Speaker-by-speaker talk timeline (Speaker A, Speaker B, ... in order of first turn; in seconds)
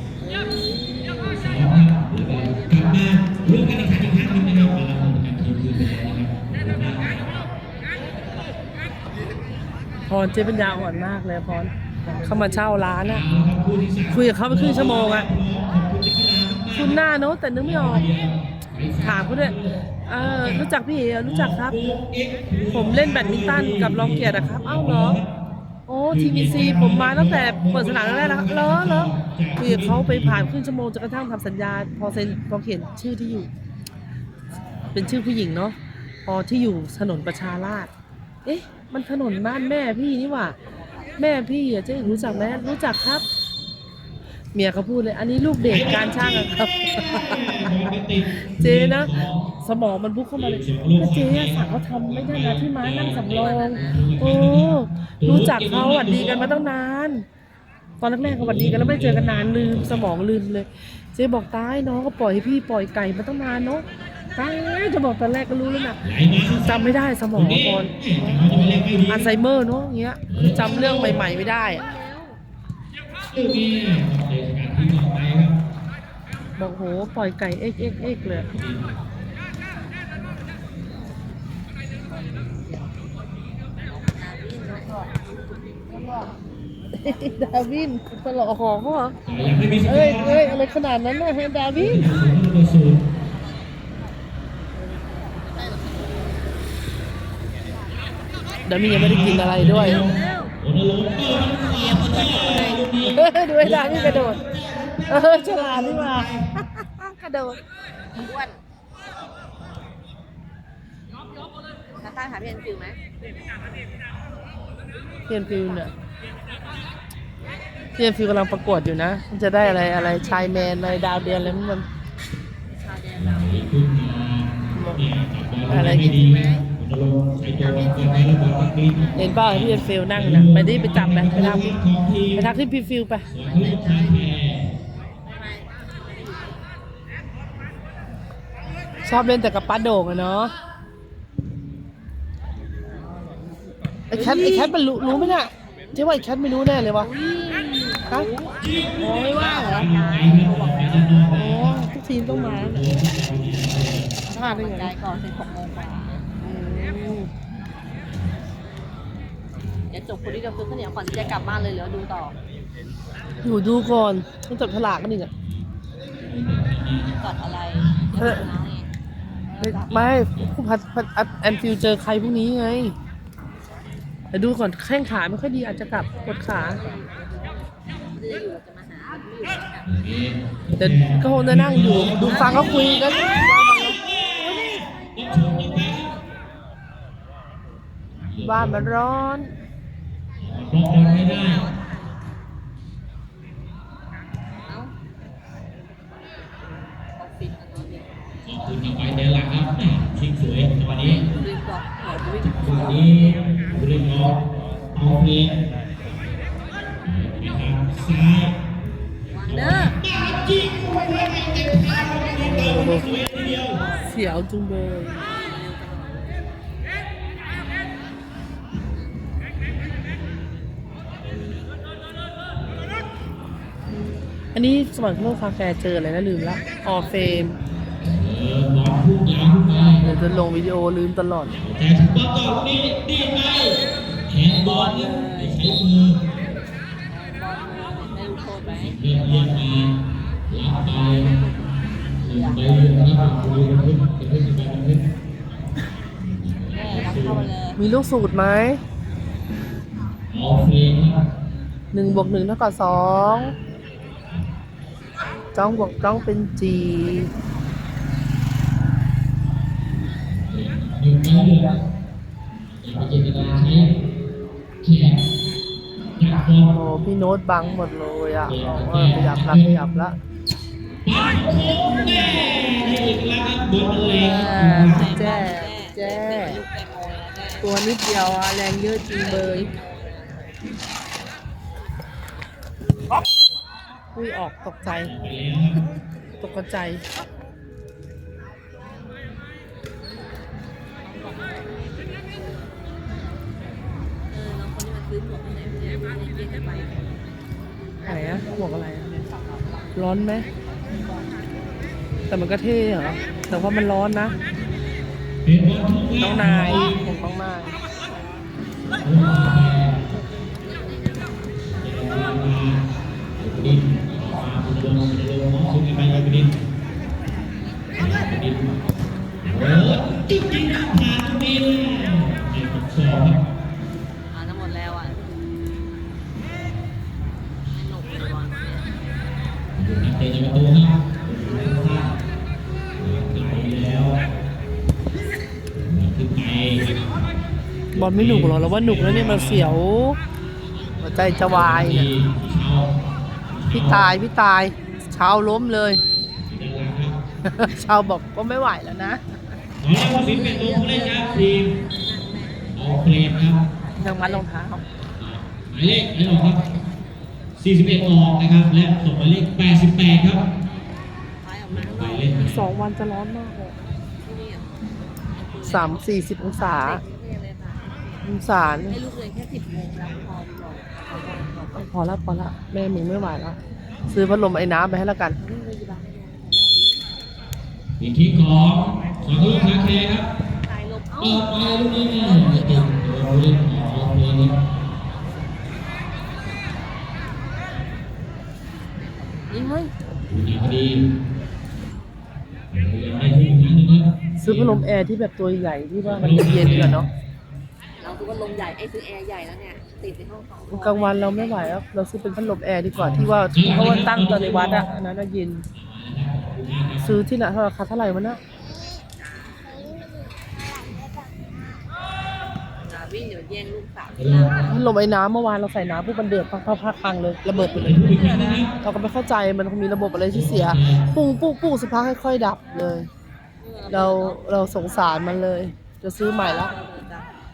Speaker A: 0.2-1.5, 2.3-3.3, 53.1-54.1, 70.9-72.4, 83.9-85.5, 95.2-96.3, 99.7-100.5, 101.2-102.8, 108.2-108.6, 112.0-113.0, 115.6-115.9, 119.6-121.7, 122.7-123.7, 126.0-126.6, 127.6-128.5, 133.4-134.3, 135.2-136.6, 144.1-146.0, 147.0-148.6, 149.3-151.3, 154.3-156.2, 159.9-162.3, 167.2-168.9, 169.5-170.3, 176.1-179.9, 182.2-183.0, 190.9-192.1, 194.7-194.9, 197.2-198.1, 201.0-203.3, 209.3-210.0, 215.2-216.3, 226.9-227.5, 229.7-230.2, 234.6-235.6, 237.1-239.0, 241.1-242.6, 246.7-247.8, 267.8-268.5, 274.4-277.7, 279.1-280.4, 291.0-291.8, 294.3-297.2, 310.6-311.4, 324.3-325.4, 327.7-328.9, 341.1-341.8, 350.1-352.7, 353.7-354.6, 361.4-362.6, 364.2-367.9, 368.9-371.9, 375.4-376.9, 380.6-382.9, 389.4-389.9, 398.0-401.8, 409.2-409.9, 412.8-414.8, 423.6-425.2, 426.2-427.3
Speaker B: 1.2-7.2, 13.0-17.0, 17.5-20.6, 21.2-25.3, 26.1-30.4, 45.6-49.5, 50.3-56.5, 58.2-60.1, 66.0-69.3, 70.3-71.2, 73.3-75.5, 78.2-79.0, 89.2-90.4, 91.7-93.0, 98.8-106.5, 123.2-132.4, 133.3-134.7, 148.6-154.1, 161.0-161.6, 166.2-167.2, 167.7-168.4, 170.2-170.5, 179.8-186.1, 188.2-188.9, 190.4-191.7, 198.4-201.3, 202.4-205.6, 207.0-208.6, 209.5-213.8, 228.0-230.1, 231.5-236.2, 238.7-239.9, 240.5-241.3, 242.2-245.1, 246.2-247.5, 250.3-251.2, 260.3-261.8, 262.8-263.9, 264.8-265.2, 266.2-266.7, 268.5-269.7, 271.1-275.1, 284.9-285.8, 305.4-307.0, 309.0-310.0, 311.6-312.8, 313.4-316.6, 317.9-318.8, 319.4-323.4, 329.7-332.1, 333.0-334.2, 335.7-336.9, 337.9-339.8, 341.2-342.9, 343.5-344.1, 346.4-347.2, 349.8-351.8, 352.7-353.6, 355.2-356.6, 357.6-360.4, 361.7-362.7, 378.0-380.3, 381.2-384.6, 390.3-391.1, 392.7-394.8, 396.0-397.0, 402.9-404.9, 405.7-407.2, 414.2-414.6, 417.7-418.7, 420.3-421.1
Speaker C: 10.1-13.2, 14.1-15.3, 16.7-18.1, 19.0-19.5, 20.1-21.8, 22.7-25.2, 25.9-33.5, 34.9-35.7, 36.2-37.9, 38.5-40.5, 41.2-43.2, 44.5-47.7, 48.6-57.2, 58.0-63.8, 64.3-66.0, 66.6-71.8, 76.6-78.5, 87.0-89.1, 89.9-92.1, 98.7-100.0, 103.0-104.4, 105.1-107.6, 115.3-115.9, 118.0-121.8, 124.7-125.1, 125.7-126.2, 129.2-131.8, 132.3-133.3, 139.0-140.5, 144.1-147.1, 148.1-148.3, 149.0-149.8, 151.3-152.8, 154.3-154.9, 156.4-157.3, 163.4-165.3, 169.6-172.9, 174.3-176.8, 180.8-184.0, 188.4-189.5, 212.4-213.1, 214.0-215.2, 224.5-227.6, 230.0-231.5, 247.8-248.8, 251.9-253.5, 255.5-257.3, 266.4-270.1, 274.0-276.6, 277.6-279.7, 284.1-285.1, 286.4-287.0, 298.0-299.2, 299.9-300.4, 302.3-304.4, 306.2-307.7, 337.9-340.2, 341.0-342.1, 343.7-346.0, 347.4-349.2, 354.0-354.8, 362.4-363.7, 365.6-367.0, 368.2-368.9, 371.8-373.6, 374.1-375.4, 394.4-397.1, 400.7-405.6, 407.0-408.4, 414.7-423.1, 423.9-426.7